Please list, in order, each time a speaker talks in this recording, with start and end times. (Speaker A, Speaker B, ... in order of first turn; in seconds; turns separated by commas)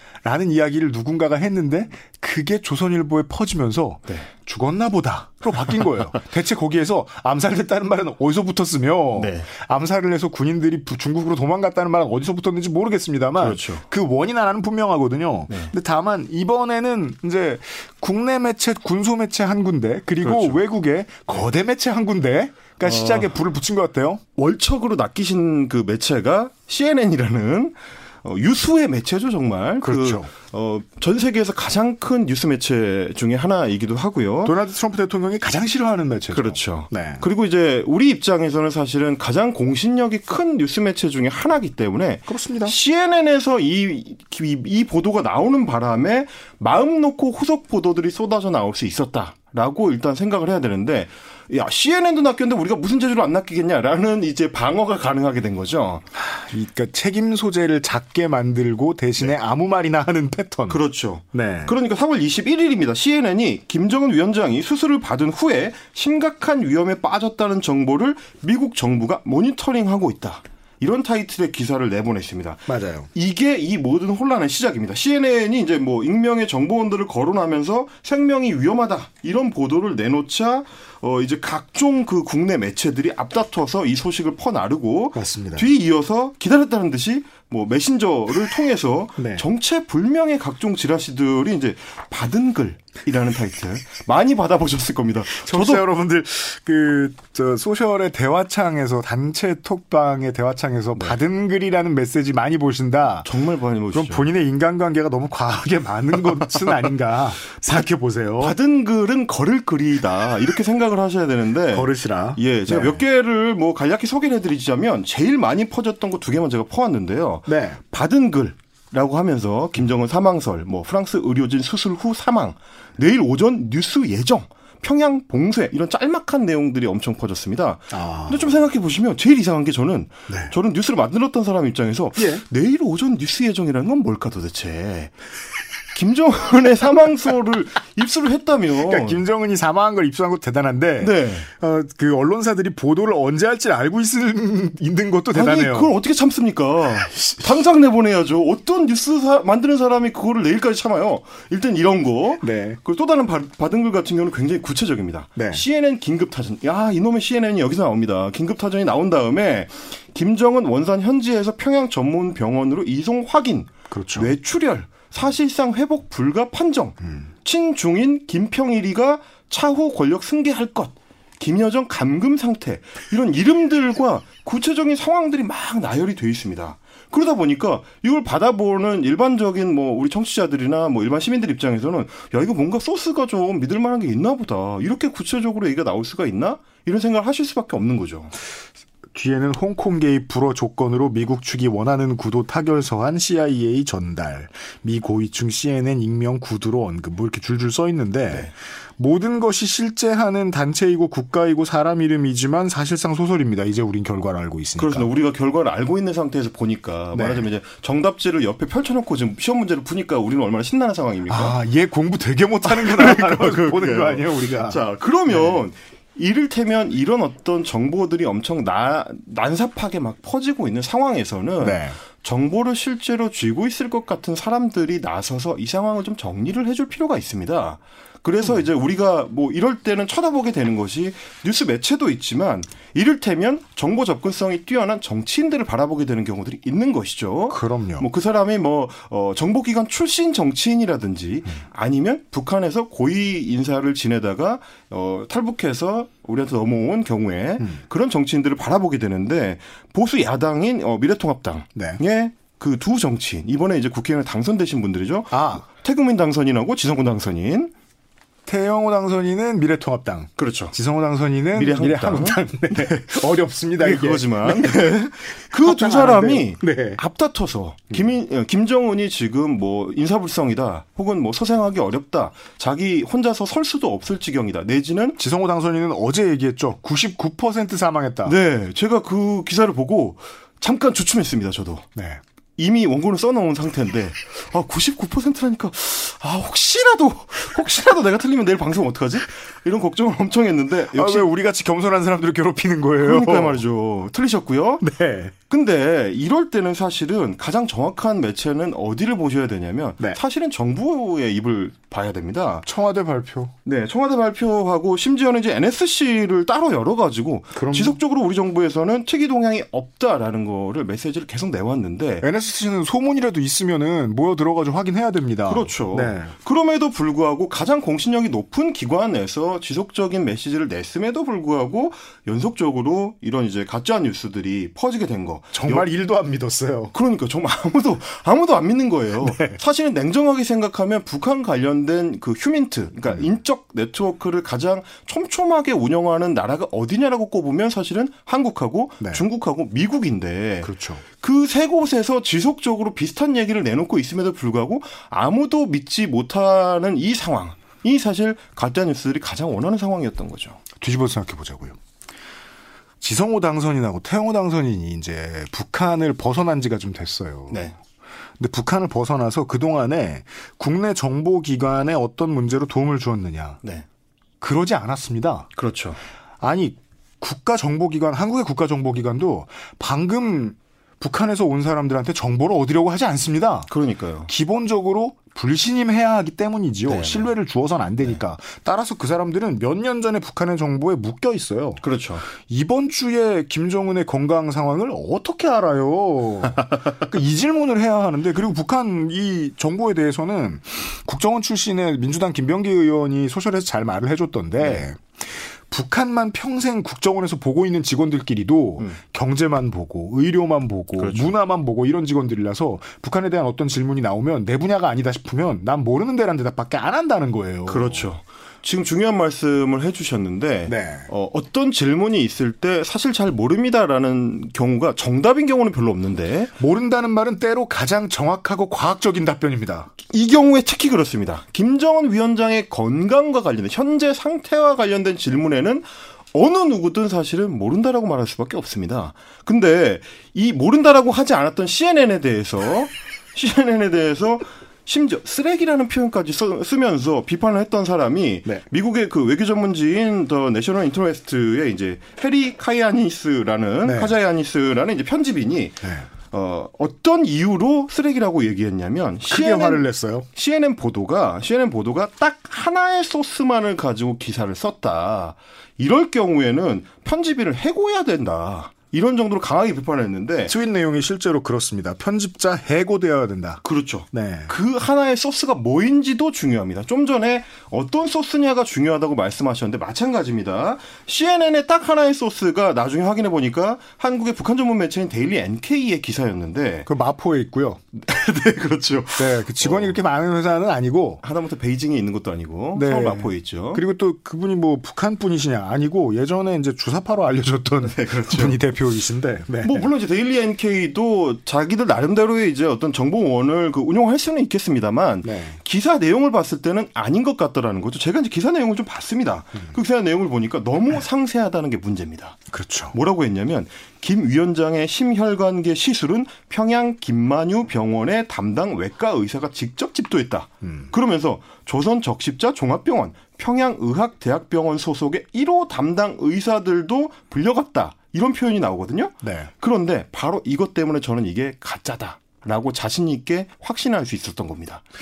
Speaker A: 0.2-24.2, Speaker B: 9.2-9.5, Speaker B: 13.4-13.8, Speaker B: 20.2-20.6, Speaker B: 22.8-23.3, Speaker B: 24.4-34.5, Speaker A: 29.8-30.3, Speaker A: 34.4-37.2, Speaker B: 36.3-56.1, Speaker A: 42.3-42.8, Speaker A: 56.2-60.8, Speaker B: 60.7-95.8, Speaker A: 61.3-61.7, Speaker A: 72.7-73.1, Speaker A: 85.2-85.7, Speaker A: 89.2-89.4, Speaker A: 95.3-103.3, Speaker B: 103.2-104.3, Speaker A: 103.9-108.6, Speaker B: 108.4-135.1, Speaker A: 111.7-113.0, Speaker A: 117.5-117.8, Speaker A: 127.9-128.4, Speaker A: 130.3-130.5, Speaker A: 132.2-132.4, Speaker B: 135.9-139.2, Speaker A: 138.8-145.9, Speaker B: 141.0-141.5, Speaker B: 145.3-188.3, Speaker A: 152.4-152.8, Speaker A: 155.4-155.6, Speaker A: 163.9-164.3, Speaker A: 189.1-205.1, Speaker B: 204.8-211.6, Speaker A: 207.1-207.4, Speaker A: 211.3-215.6, Speaker B: 212.7-257.7, Speaker A: 221.6-222.0, Speaker A: 237.5-238.1, Speaker A: 255.3-255.6, Speaker A: 258.5-264.9, Speaker B: 260.4-260.7, Speaker B: 261.5-263.3, Speaker B: 263.8-275.2, Speaker A: 265.5-267.0, Speaker A: 275.2-278.3, Speaker B: 278.2-281.9, Speaker A: 281.9-282.2, Speaker B: 282.6-291.3, Speaker A: 290.9-293.6, Speaker B: 293.0-294.9, Speaker A: 294.8-295.3, Speaker B: 295.5-302.7, Speaker A: 302.7-303.5, Speaker B: 303.6-312.3, Speaker A: 307.5-308.0, Speaker A: 312.2-316.3, Speaker B: 315.5-325.9, Speaker A: 325.5-326.9, Speaker B: 326.9-350.6, Speaker A: 329.2-329.6, Speaker A: 340.6-341.0, Speaker A: 350.8-351.8, Speaker A: 353.0-357.7, Speaker A: 358.4-363.6, Speaker A: 364.4-365.5, Speaker B: 365.6-366.0, Speaker A: 366.4-373.7, Speaker B: 373.7-374.3, Speaker A: 374.3-381.8, Speaker B: 376.9-377.3, Speaker B: 381.8-382.2, Speaker A: 382.4-408.1, Speaker B: 401.0-401.3, Speaker B: 407.7-416.5, Speaker A: 410.7-411.1, Speaker A: 416.6-419.9, Speaker B: 420.1-449.8, Speaker A: 443.8-444.1, Speaker A: 445.8-446.1, Speaker A: 449.3-450.3, Speaker B: 450.3-460.5, Speaker A: 460.5-464.5, Speaker B: 463.6-476.9, Speaker A: 476.9-477.8, Speaker B: 477.9-479.9, Speaker A: 479.2-481.2, Speaker B: 481.2-483.8, Speaker A: 482.8-489.9, Speaker B: 487.8-488.6, Speaker B: 489.6-502.4, Speaker A: 495.2-495.6, Speaker A: 502.5-502.9, Speaker B: 502.9-524.8, Speaker A: 510.6-510.9, Speaker A: 519.2-519.5